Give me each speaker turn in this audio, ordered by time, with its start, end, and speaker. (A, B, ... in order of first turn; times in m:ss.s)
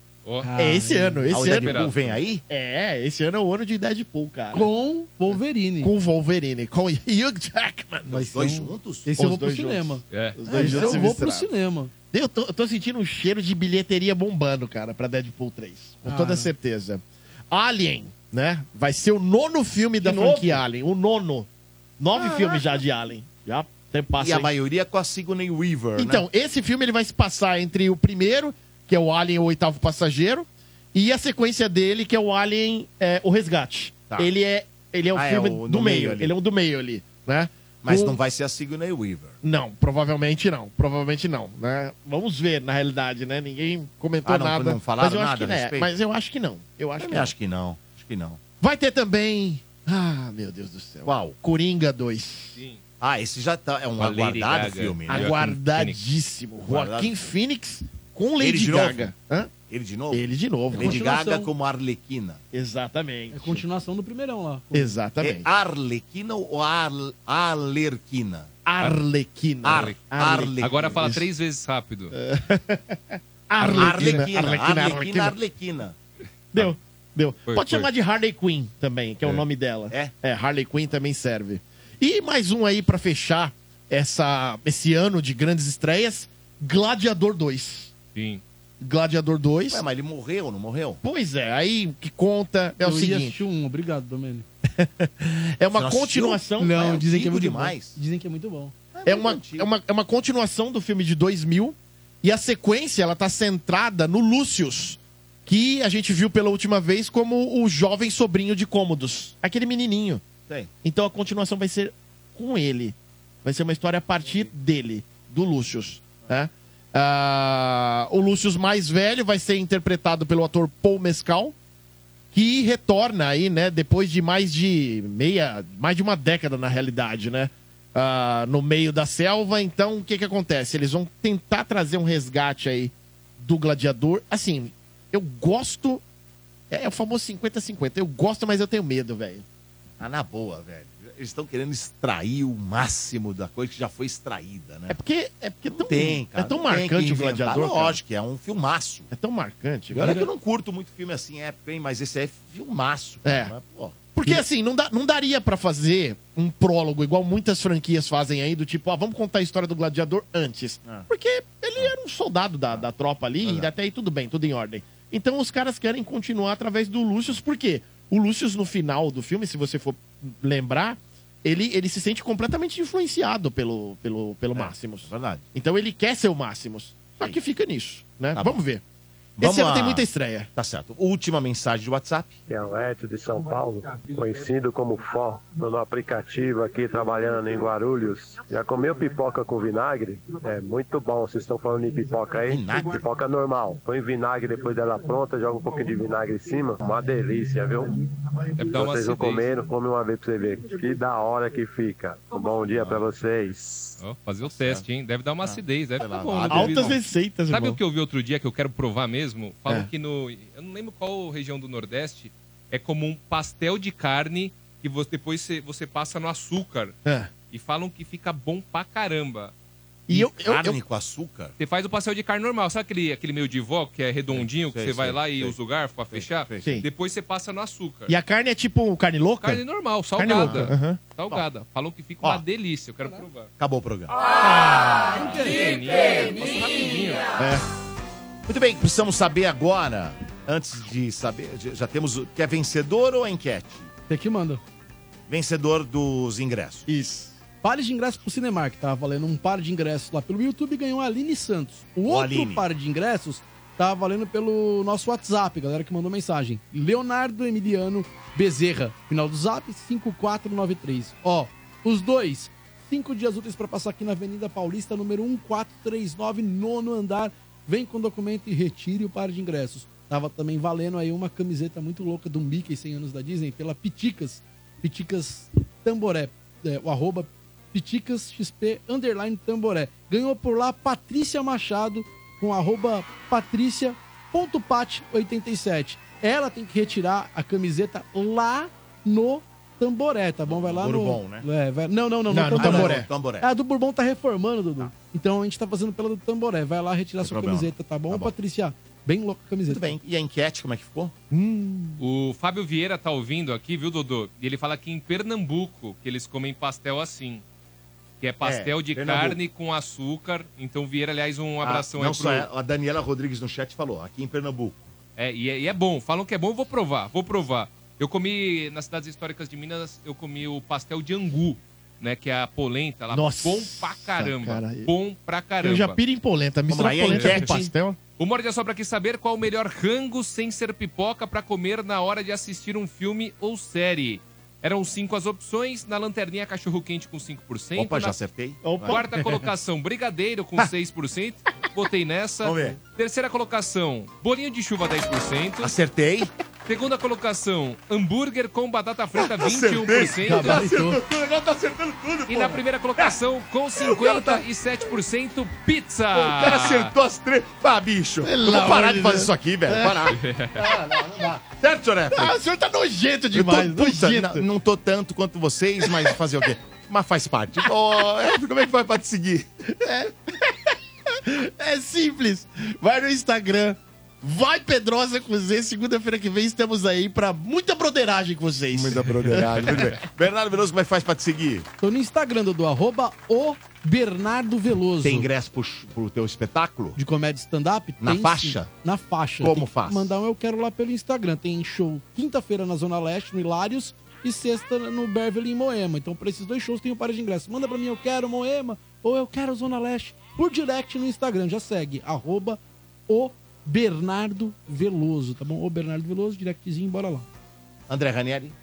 0:00.4-0:01.3 A
0:00.6-0:04.7 B
0:01.3-0:02.4 C
0:01.4-0:01.9 D
0:04.5-0:05.9 A
0:05.8-0:08.3 B
0:08.1-0:11.9 A
0:08.3-0:09.1 C
0:09.1-0:11.5 B
0:10.1-0:10.4 D
0:10.6-0:11.0 C
0:12.1-0:24.5 B
0:16.0-0:16.5 A
0:20.0-0:20.6 A
0:22.2-0:22.6 C
0:24.2-0:26.2 C
0:26.0-0:38.2 B
0:35.1-0:36.3 C
0:37.8-0:39.4 C
0:39.4-0:47.3 B
0:44.2-0:45.9 C
0:47.0-0:48.4 C
0:48.6-0:52.6 B
0:51.0-0:51.4 C
0:53.0-0:55.3 C
0:54.0-0:56.0 D
0:55.1-0:59.5 B
0:56.6-0:57.1 C
0:58.4-0:59.1 C
0:59.6-1:02.4 C
1:00.1-1:01.0 B
1:00.7-1:01.5 A
1:02.5-1:03.6 B
1:03.3-1:04.9 A
1:04.7-1:05.5 B
1:05.2-1:08.5 C
1:08.6-1:11.2 B
1:09.6-1:11.0 C
1:09.7-1:10.0 D
1:10.6-1:12.1 D
1:12.1-1:15.4 B
1:13.6-1:14.2 D
1:13.8-1:16.0 C
1:16.5-1:27.9 B
1:17.5-1:17.9 D
1:28.1-1:28.4 D
1:28.8-1:29.8 B
1:29.7-1:31.0 C
1:31.0-1:33.4 B
1:32.8-1:34.4 A
1:34.6-1:36.8 B
1:35.7-1:38.0 C
1:36.6-1:38.7 A
1:38.9-1:39.7 C
1:39.0-1:50.2 B
1:50.8-2:01.5 B
2:02.3-2:16.0 B
2:16.7-2:19.4 B
2:20.0-2:25.0 C
2:24.9-2:28.0 B
2:25.7-2:29.1 C
2:29.1-2:30.3 B
2:29.9-2:34.4 C
2:33.2-2:33.5 B
2:34.1-2:58.8 B
2:43.4-2:43.7 C
2:54.5-2:55.4 C
2:58.3-2:58.6 C
2:59.4-3:02.4 C
2:59.4-3:00.5 B
3:02.5-3:17.9 E
3:12.5-3:13.0 C
3:18.6-3:19.5 D
3:18.7-3:24.0 E
3:22.6-3:23.3 C
3:24.0-3:27.0 D
3:24.4-3:24.8 C
3:25.4-3:27.0 C
3:26.5-3:27.8 B
3:27.5-3:37.0 D
3:37.0-3:37.3 B
3:37.5-3:39.5 D
3:40.1-3:40.8 B
3:40.1-3:41.5 C
3:41.6-3:48.1 D
3:44.3-3:45.6 C
3:46.1-3:46.8 C
3:48.1-3:49.6 B
3:49.4-3:53.5 D
3:50.1-3:51.0 B
3:50.3-3:50.7 C
3:53.6-3:54.1 C
3:55.1-3:55.7 A
3:55.3-3:57.2 D
3:57.4-3:57.6 B
3:58.5-4:03.9 C
4:04.1-4:04.6 A
4:05.3-4:06.9 C
4:06.9-4:07.3 B
4:07.6-5:00.0 A
4:12.0-4:12.7 C
4:50.4-4:51.4 C
4:52.3-4:53.1 B
4:52.6-4:53.5 C
4:57.2-4:58.3 C
4:59.7-5:01.1 C
5:01.3-5:02.0 B
5:02.0-5:07.4 D
5:08.2-5:12.5 D
5:08.4-5:09.4 C
5:11.6-5:14.9 C
5:15.2-5:26.0 D
5:23.1-5:24.9 B
5:25.6-5:28.0 B
5:26.7-5:27.5 C
5:27.1-5:27.6 D
5:28.2-5:38.2 D
5:37.8-5:39.0 C
5:38.6-5:39.5 B
5:38.9-5:45.7 D
5:42.4-5:42.8 C
5:45.6-5:46.3 C
5:46.6-5:50.6 D
5:49.2-5:53.2 C
5:50.2-5:51.0 A
5:52.3-5:56.9 D
5:53.8-5:54.4 C
5:56.1-6:00.2 C
5:58.2-6:01.2 B
6:00.1-6:00.7 D
6:00.7-6:02.4 C
6:02.1-6:04.4 B
6:03.3-6:09.5 C
6:05.8-6:06.2 B
6:09.6-6:20.0 B
6:18.7-6:21.7 C
6:21.8-6:25.3 A
6:25.0-6:27.0 C
6:27.0-6:47.2 A
6:28.0-6:28.7 C
6:29.4-6:30.2 C
6:47.9-6:48.5 C